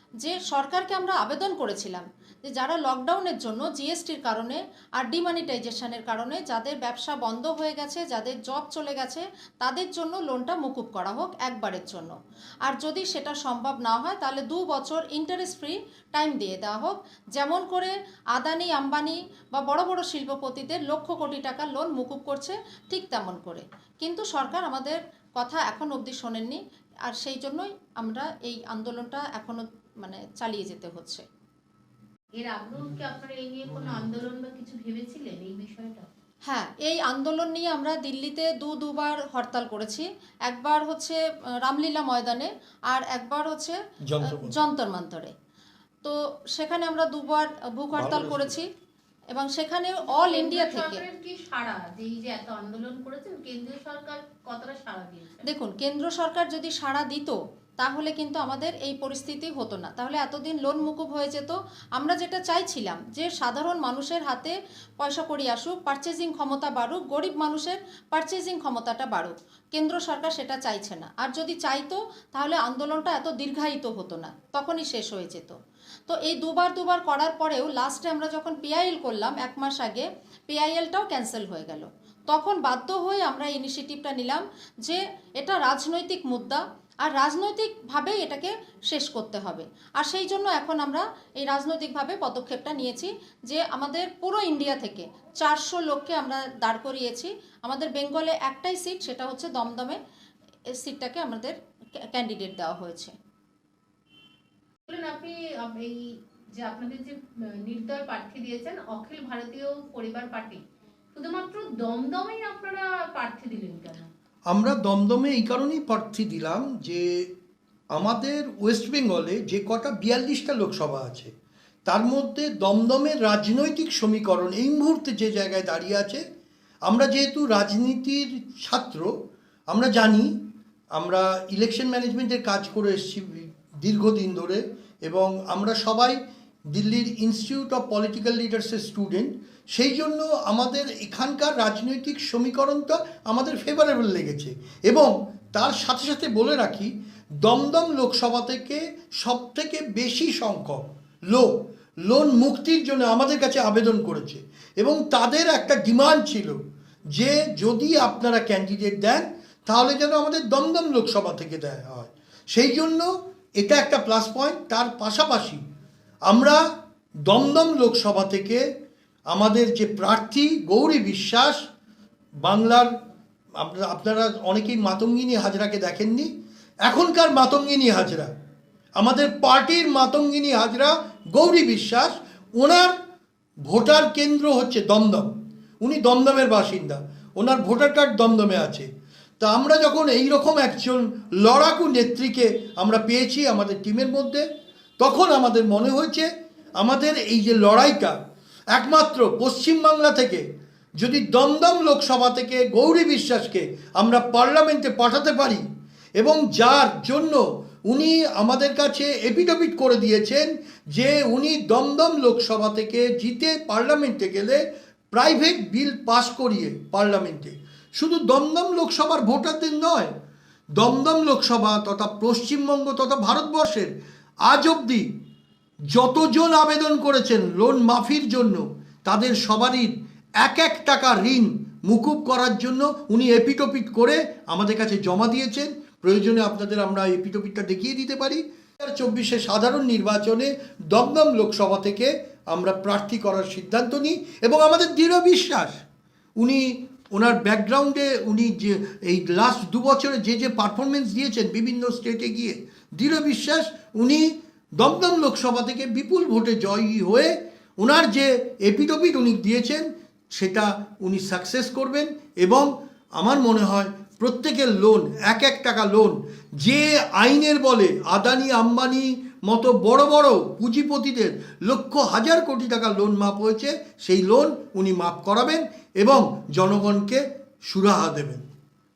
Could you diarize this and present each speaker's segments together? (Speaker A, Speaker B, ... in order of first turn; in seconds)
Speaker A: 0.2-31.2, 36.5-45.3, 46.0-48.7, 49.3-51.0, 55.5-75.5, 76.1-100.0, 100.8-101.5, 102.1-103.1
Speaker B: 32.3-36.1, 50.1-55.4, 104.9-110.6, 111.1-114.1
Speaker C: 44.1-44.5, 48.0-48.6, 114.5-117.3, 117.9-121.3, 121.8-126.2, 126.8-129.1, 129.7-130.3, 130.9-136.2, 136.7-151.5, 152.1-156.6, 157.1-165.6, 166.3-166.6, 167.2-168.6, 169.3-171.6, 172.4-172.9, 173.6-176.3, 176.8-178.3, 179.0-182.9, 183.7-188.9, 189.4-194.4, 195.0-198.2, 198.7-200.4, 201.0-205.6, 206.2-220.1, 220.8-223.9, 224.4-225.1, 225.9-245.8, 246.4-254.3, 254.8-278.4